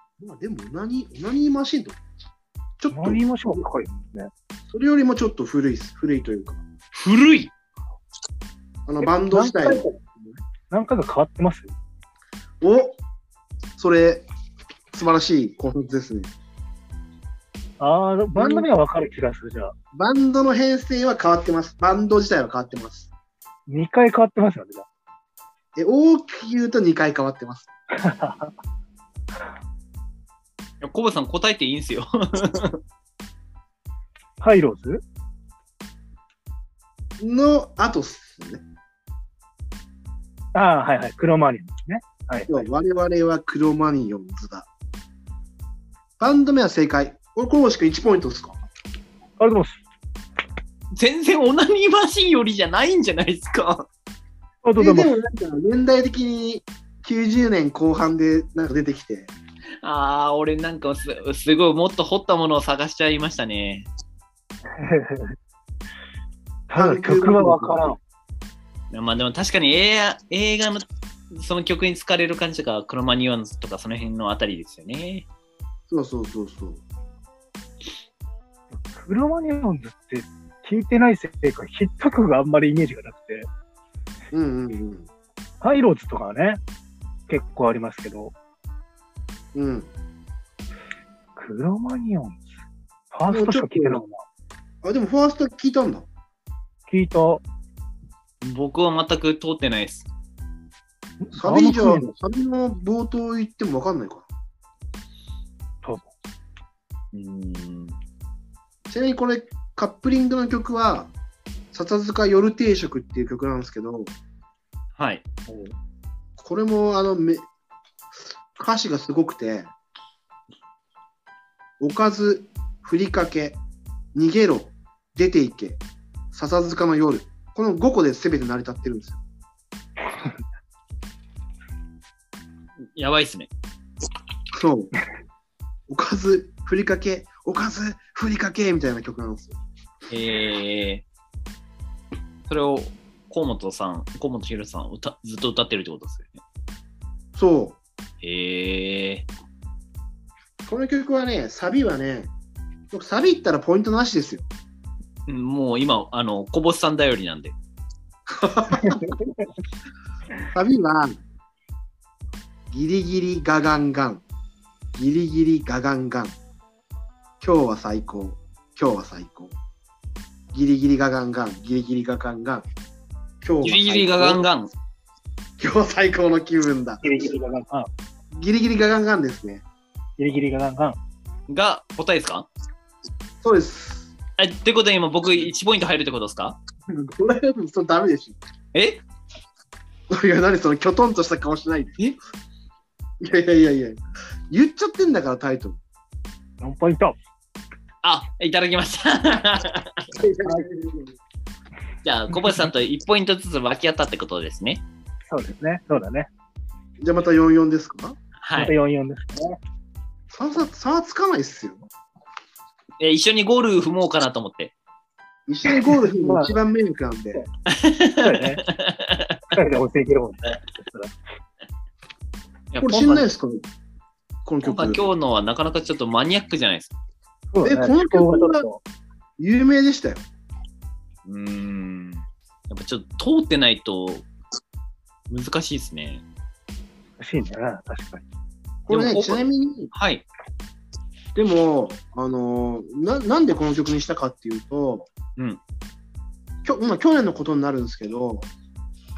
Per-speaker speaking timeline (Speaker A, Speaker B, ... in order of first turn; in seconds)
Speaker A: 0.2-2.0, 2.8-3.2, 4.7-6.6, 8.8-10.4, 12.6-13.0, 13.8-14.2, 14.9-16.3, 18.4-18.7, 19.9-23.1, 25.8-27.7, 37.2-38.6, 42.5-44.7, 46.2-48.6, 54.8-59.3, 66.7-67.9, 75.9-76.8, 84.3-85.1, 89.5-89.9, 93.3-94.0, 94.8-96.1, 101.3-104.3, 108.9-111.1, 111.7-114.1, 116.4-117.4, 118.5-119.7, 121.8-123.6, 124.1-125.8, 126.3-129.2, 134.5-134.9, 135.9-139.6, 147.3-147.8, 150.6-152.3, 152.9-154.5, 158.3-159.0, 160.5-161.2, 162.7-164.2, 164.9-166.3, 167.4-169.6, 170.5-172.7, 173.4-174.4, 175.6-177.2, 178.3-179.6, 183.4-184.1, 186.9-188.4, 190.1-192.0, 193.2-194.0, 194.5-195.8, 200.2-201.1, 207.0-208.2, 210.3-211.9, 215.5-217.4, 222.8-223.6, 224.4-225.1, 227.6-228.7, 229.4-230.2, 238.8-239.9, 241.3-245.1, 246.6-248.5
Speaker B: 2.9-4.3, 9.0-9.9, 10.7-11.7, 17.8-19.7, 23.7-24.9, 27.9-28.5, 34.4-35.0, 40.5-42.6, 49.4-49.8, 54.6-55.1, 64.8-65.3, 66.7-68.0, 78.7-83.5, 85.6-86.6, 87.3-88.3, 91.3-92.5, 93.1-94.2, 96.9-97.4, 101.2-102.0, 105.8-106.1, 115.5-115.7, 158.8-159.1, 177.0-177.9, 180.2-181.0, 196.6-197.2, 205.3-206.3, 208.6-209.6, 216.1-216.5, 218.2-218.6, 219.5-221.1, 227.5-228.8, 237.2-238.2
Speaker C: 6.9-7.5, 30.8-32.8, 50.9-53.9, 59.8-63.9, 68.9-75.2, 98.4-100.1, 107.1-108.0, 115.0-115.2, 132.9-133.5, 140.1-141.0, 142.5-146.4, 148.2-149.3, 155.3-157.6, 173.6-174.7, 181.5-182.5, 184.4-186.6, 188.7-189.0, 198.0-200.1, 202.0-204.8, 208.4-208.7, 213.0-214.7, 217.7-219.4, 222.7-223.2, 224.6-226.9, 231.2-234.3, 235.3-236.2, 238.9-240.2